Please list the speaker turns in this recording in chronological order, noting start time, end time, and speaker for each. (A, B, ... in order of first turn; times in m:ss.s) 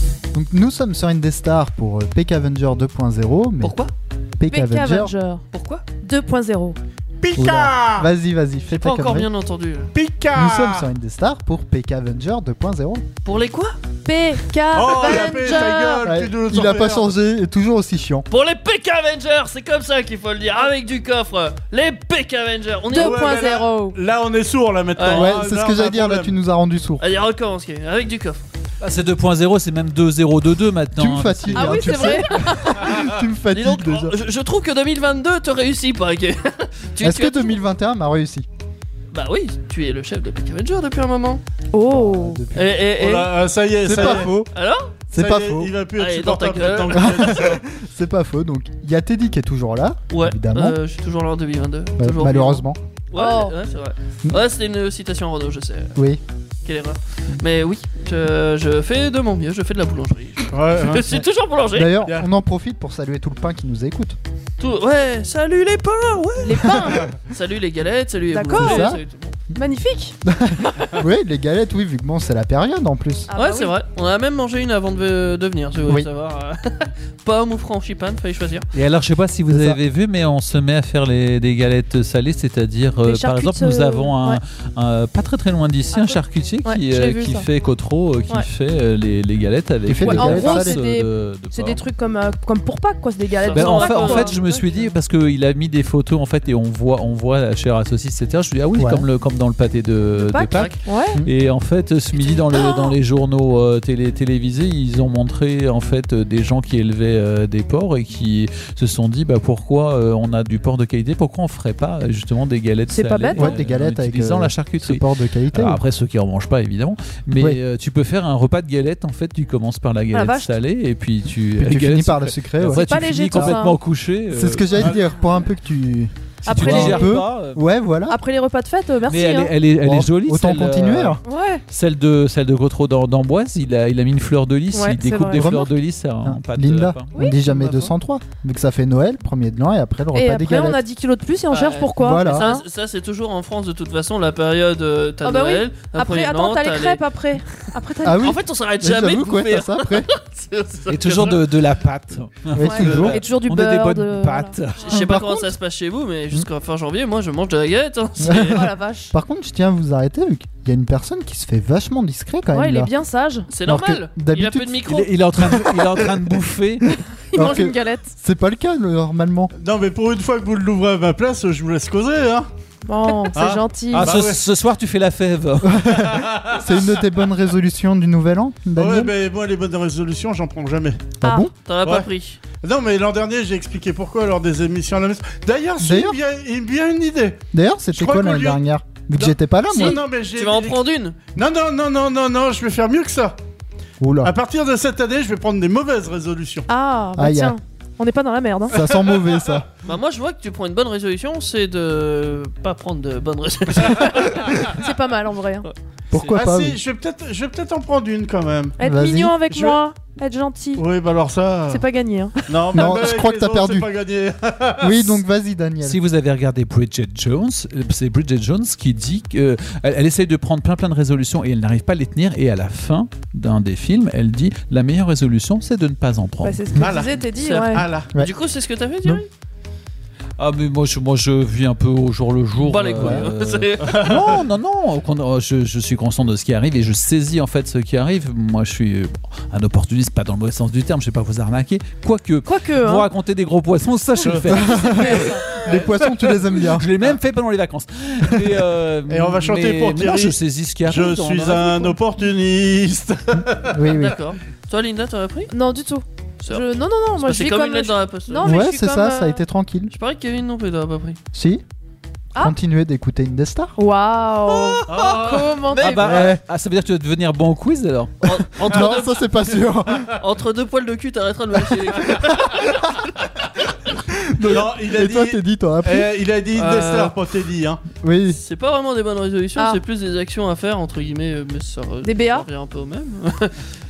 0:00.3-0:03.7 A
0:03.6-0:03.9 B
0:04.4-0:05.1 A
0:04.5-0:05.4 C
0:05.5-0:05.8 B
0:06.0-0:06.8 C
0:07.2-0:08.1 D
0:07.3-0:09.3 A
0:08.7-0:09.9 B
0:09.9-0:10.9 D
0:10.3-0:13.0 A
0:13.2-0:13.8 B
0:14.0-0:16.0 C
0:14.7-0:17.0 D
0:16.0-0:18.3 A
0:18.3-0:23.4 B
0:22.9-0:24.0 C
0:22.9-0:26.3 D
0:25.0-0:25.3 B
0:25.1-0:27.0 A
0:27.0-0:28.4 B
0:28.8-0:32.0 E
0:31.0-0:34.2 A
0:31.6-0:32.8 C
0:33.5-0:37.6 B
0:37.0-0:38.4 A
0:39.1-0:41.4 B
0:41.7-0:42.4 C
0:41.9-0:42.8 A
0:42.5-0:44.9 B
0:43.0-0:44.3 D
0:43.8-0:44.5 A
0:45.1-0:45.7 A
0:45.1-0:47.6 D
0:46.0-0:47.5 B
0:46.9-0:50.8 A
0:50.1-0:56.0 B
0:52.0-0:52.8 A
0:53.2-0:53.5 C
0:56.0-0:56.2 A
0:56.6-1:02.0 B
1:00.5-1:01.0 D
1:01.7-1:04.2 A
1:04.6-1:09.4 B
1:06.4-1:07.1 C
1:08.3-1:08.9 C
1:08.5-1:09.0 A
1:09.6-1:10.2 C
1:10.2-1:13.3 A
1:13.3-1:13.7 C
1:13.3-1:18.7 B
1:18.7-1:31.8 E
1:19.5-1:19.8 A
1:23.0-1:24.4 C
1:25.9-1:27.5 C
1:29.8-1:30.8 A
1:30.0-1:34.8 C
1:33.4-1:34.5 B
1:33.5-2:04.9 E
1:38.8-1:39.1 A
1:40.2-1:41.2 C
1:42.6-1:42.9 C
1:52.9-1:53.5 C
1:53.4-1:55.8 A
2:00.1-2:00.5 C
2:01.6-2:03.6 A
2:02.8-2:03.8 C
2:04.3-2:08.2 A
2:04.8-2:05.0 D
2:06.4-2:07.6 E
2:06.5-2:07.2 C
2:08.1-2:09.5 C
2:09.1-2:17.1 E
2:09.8-2:11.2 A
2:11.2-2:11.6 C
2:14.7-2:15.5 C
2:15.3-2:20.8 A
2:17.5-2:17.9 B
2:20.1-2:22.6 C
2:21.5-2:31.6 B
2:22.0-2:22.5 A
2:25.2-2:28.3 C
2:28.0-2:30.1 A
2:30.9-2:35.1 E
2:32.5-2:33.2 A
2:32.6-2:35.2 C
2:34.9-2:38.7 B
2:38.2-2:42.9 A
2:38.5-2:39.1 C
2:42.5-2:43.5 C
2:43.5-2:45.1 B
2:43.6-2:44.8 A
2:44.9-2:46.9 E
2:45.4-2:46.0 A
2:47.3-2:48.1 C
2:47.3-2:49.5 A
2:49.6-2:52.5 D
2:52.9-2:54.1 C
2:53.3-2:54.5 D
2:53.9-2:55.9 E
2:55.7-2:59.1 A
2:55.9-2:57.0 D
2:58.8-3:01.1 D
3:01.2-3:01.5 A
3:01.2-3:01.5 C
3:01.7-3:02.4 B
3:01.8-3:02.1 D
3:02.6-3:08.6 D
3:05.8-3:06.2 A
3:07.5-3:10.0 A
3:09.2-3:10.8 D
3:09.7-3:11.2 B
3:11.3-3:13.4 D
3:14.0-3:14.3 A
3:14.2-3:16.7 D
3:16.7-3:18.8 C
3:17.2-3:17.6 A
3:18.7-3:19.7 A
3:18.8-3:19.6 D
3:19.8-3:24.7 B
3:24.7-3:25.7 C
3:26.1-3:26.8 A
3:26.3-3:28.8 D
3:28.8-3:30.8 C
3:28.8-3:29.4 A
3:29.5-3:29.8 D
3:30.8-3:31.8 D
3:31.7-3:32.4 C
3:32.5-3:35.2 D
3:32.8-3:33.9 A
3:34.8-3:36.0 A
3:35.8-3:46.7 E
3:46.4-3:47.8 C
3:46.8-3:48.1 D
3:47.4-3:49.3 B
3:50.4-4:05.6 E
3:52.6-3:54.0 B
3:53.0-3:53.2 A
3:53.9-3:54.4 D
4:02.4-4:03.1 C
4:04.2-4:07.2 D
4:04.5-4:06.9 A
4:04.8-4:05.4 C
4:06.6-4:12.0 E
4:09.1-4:14.0 D
4:13.7-4:14.2 A
4:14.0-4:15.5 B
4:15.5-4:19.4 C
4:16.4-4:16.6 B
4:17.2-4:18.5 B
4:18.4-4:19.9 A
4:19.9-4:21.2 B
4:21.3-4:21.6 A
4:22.4-4:23.8 A
4:23.8-4:26.1 C
4:24.5-4:26.3 B
4:24.9-4:25.6 D
4:25.8-4:28.1 E
4:26.0-4:26.4 A
4:28.2-4:29.2 B
4:28.6-4:30.1 A
4:30.1-4:32.8 B
4:34.2-4:36.1 A
4:34.4-4:37.8 D
4:36.5-4:37.1 B
4:38.0-4:38.4 A
4:38.3-4:43.6 B
4:42.0-4:42.4 C